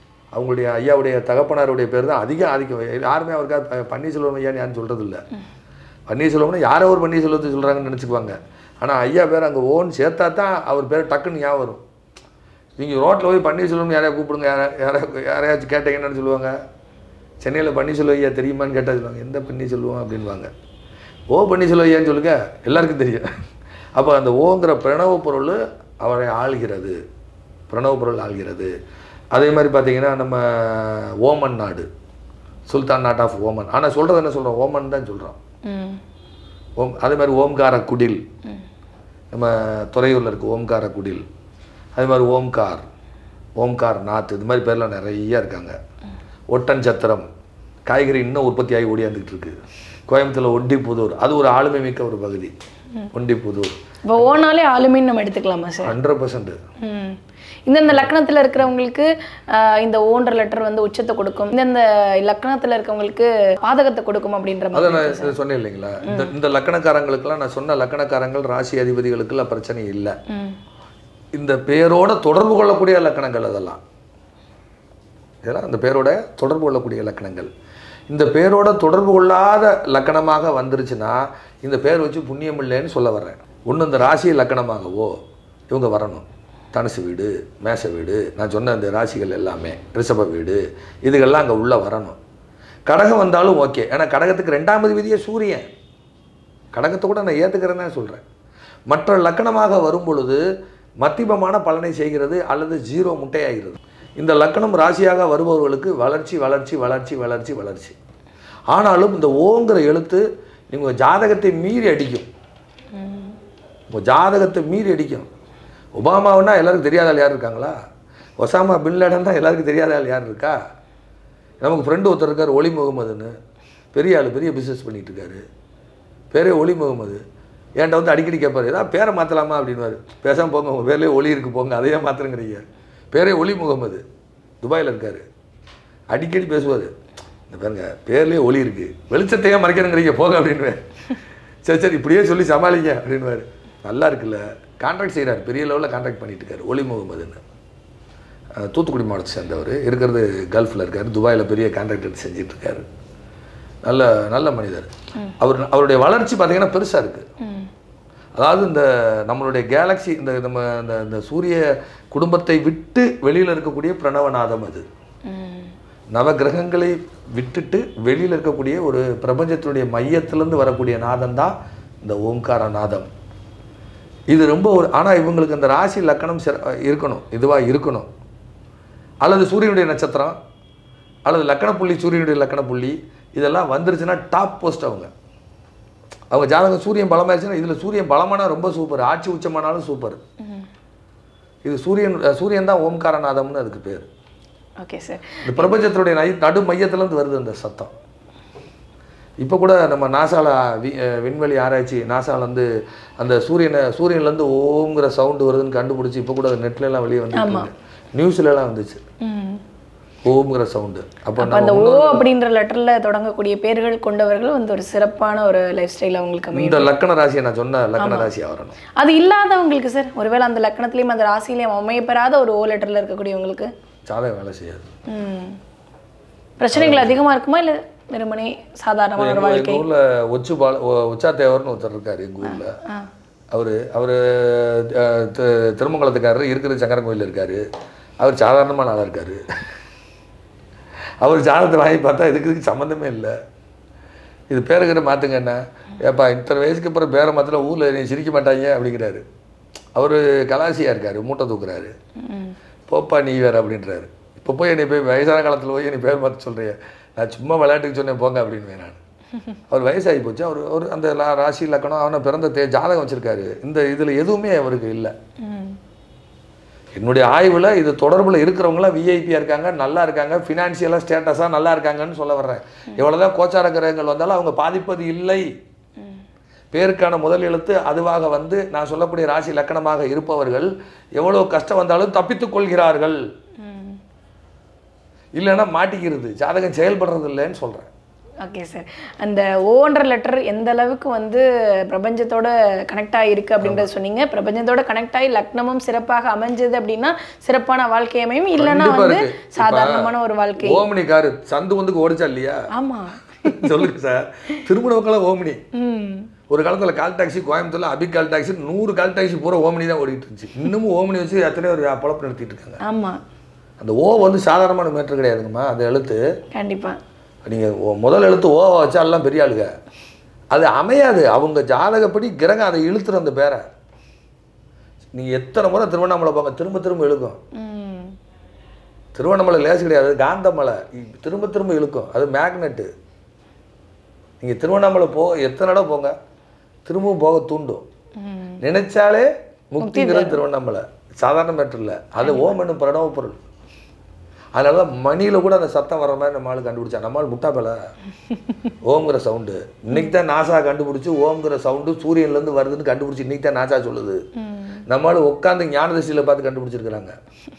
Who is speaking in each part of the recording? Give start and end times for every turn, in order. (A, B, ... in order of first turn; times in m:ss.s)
0:00.4-0:05.2 A
0:06.1-0:11.8 A
0:12.8-0:16.6 A
0:17.4-0:20.5 A
0:21.3-0:23.3 A
0:24.0-0:27.0 A
0:27.7-0:28.7 A
0:29.3-0:31.9 A
0:32.7-0:35.4 A
0:35.7-0:36.0 B
0:36.8-0:38.2 A
0:39.3-0:41.2 A
0:42.0-0:42.8 A
0:43.6-0:45.8 A
0:46.5-0:47.3 A
0:47.9-0:49.6 A
0:50.1-0:52.5 A
0:53.1-0:54.3 A
0:54.1-0:55.9 B
0:55.8-0:56.6 A
0:56.8-1:05.4 B
1:04.7-1:10.2 A
1:06.0-1:06.3 B
1:10.3-1:10.6 B
1:11.4-1:13.8 A
1:15.4-1:17.5 A
1:18.1-1:25.2 A
1:25.7-1:32.2 A
1:32.9-1:35.7 A
1:36.7-1:38.2 A
1:38.9-1:40.4 A
1:41.0-1:48.0 A
1:48.7-1:52.3 A
1:53.0-1:53.3 B
1:53.9-1:55.3 A
1:56.0-1:57.8 A
1:58.4-2:00.6 A
2:01.6-2:03.3 A
2:03.9-2:05.4 A
2:06.3-2:07.2 A
2:07.8-2:14.0 A
2:14.6-2:15.2 A
2:16.1-2:16.9 A
2:17.5-2:20.8 A
2:21.6-2:27.4 A
2:28.6-2:32.8 A
2:33.8-2:37.2 A
2:37.4-2:37.7 B
2:38.4-2:44.8 A
2:45.3-2:45.7 B
2:46.1-2:53.1 A
2:54.3-2:58.1 A
2:59.2-3:00.4 A
3:01.3-3:05.1 A
3:06.3-3:10.2 A
3:11.6-3:14.1 A
3:14.8-3:15.8 B
3:15.4-3:17.9 A
3:19.4-3:22.7 A
3:23.2-3:29.0 A
3:27.3-3:27.7 B
3:29.2-3:29.6 B
3:30.2-3:32.3 A
3:31.4-3:36.9 B
3:36.5-3:38.8 A
3:38.0-3:38.3 B
3:39.0-3:43.7 B
3:44.1-3:44.9 A
3:45.1-3:45.6 B
3:46.6-3:49.8 B
3:46.7-3:47.2 A
3:49.2-3:52.8 A
3:52.4-3:53.1 B
3:53.5-3:57.6 A
3:58.2-3:59.4 A
4:01.2-4:03.4 A
4:04.5-4:09.2 A
4:10.0-4:11.9 A
4:12.2-4:12.6 B
4:12.9-4:19.0 A
4:19.7-4:25.1 A
4:25.4-4:25.8 B
4:27.0-4:35.5 A
4:36.7-4:43.2 A
4:43.6-4:44.0 B
4:45.4-4:47.9 A
4:48.4-5:00.8 B
4:53.6-4:53.9 A
4:58.6-5:00.1 A
5:00.6-5:02.6 A
5:02.7-5:03.8 B
5:03.4-5:05.6 A
5:05.8-5:06.3 B
5:06.5-5:12.8 A
5:12.8-5:13.2 B
5:13.8-5:16.2 A
5:16.5-5:17.0 B
5:17.4-5:19.7 A
5:20.5-5:23.6 A
5:25.1-5:27.4 A
5:27.6-5:28.2 B
5:29.2-5:32.9 A
5:34.4-5:36.1 A
5:36.9-5:37.8 A
5:38.2-5:38.6 B
5:38.6-5:43.4 A
5:39.8-5:40.4 B
5:42.2-5:42.6 B
5:44.6-5:47.8 A
5:48.8-5:54.2 A
5:54.4-5:54.8 B
5:54.9-5:57.2 A